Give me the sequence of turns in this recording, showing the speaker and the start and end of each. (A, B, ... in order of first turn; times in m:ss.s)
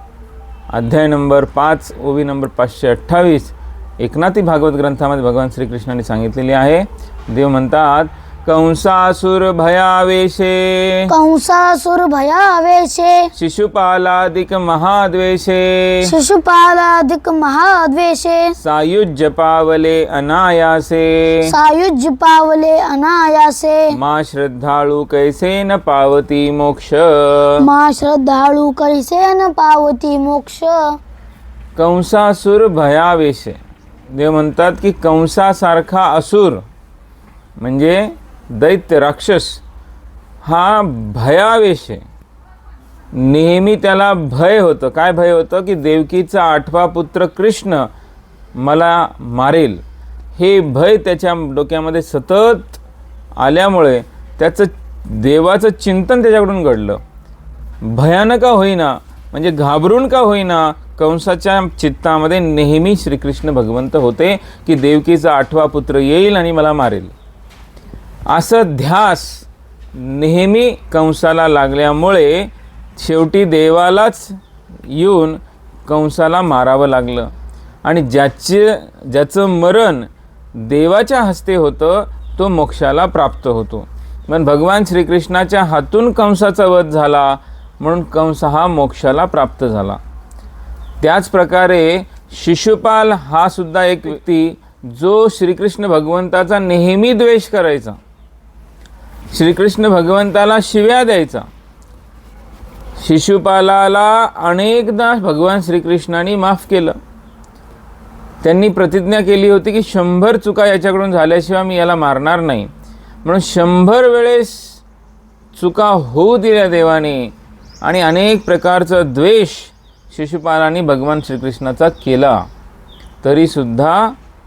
0:00.7-0:11.1 A
0:11.1-0:13.3 B
0:13.3-0:16.1 A
0:16.0-0:18.5 B
0:18.6-0:21.5 A
0:21.4-0:23.9 B
0:23.9-0:27.7 A
0:27.6-0:30.9 B
0:31.8-0:36.6 A
0:37.6-0:39.6 A
0:40.4-0:42.0 A
0:43.1-0:47.9 A
0:48.5-0:49.8 A
0:50.4-0:52.8 A
0:53.4-0:57.0 A
0:57.8-1:07.1 A
1:08.3-1:17.3 A
1:17.8-1:30.0 A
1:31.0-1:38.0 A
1:39.3-1:41.5 A
1:43.0-1:47.0 A
1:48.4-1:52.7 A
1:53.2-1:54.8 A
1:55.5-2:02.4 A
2:03.2-2:04.2 A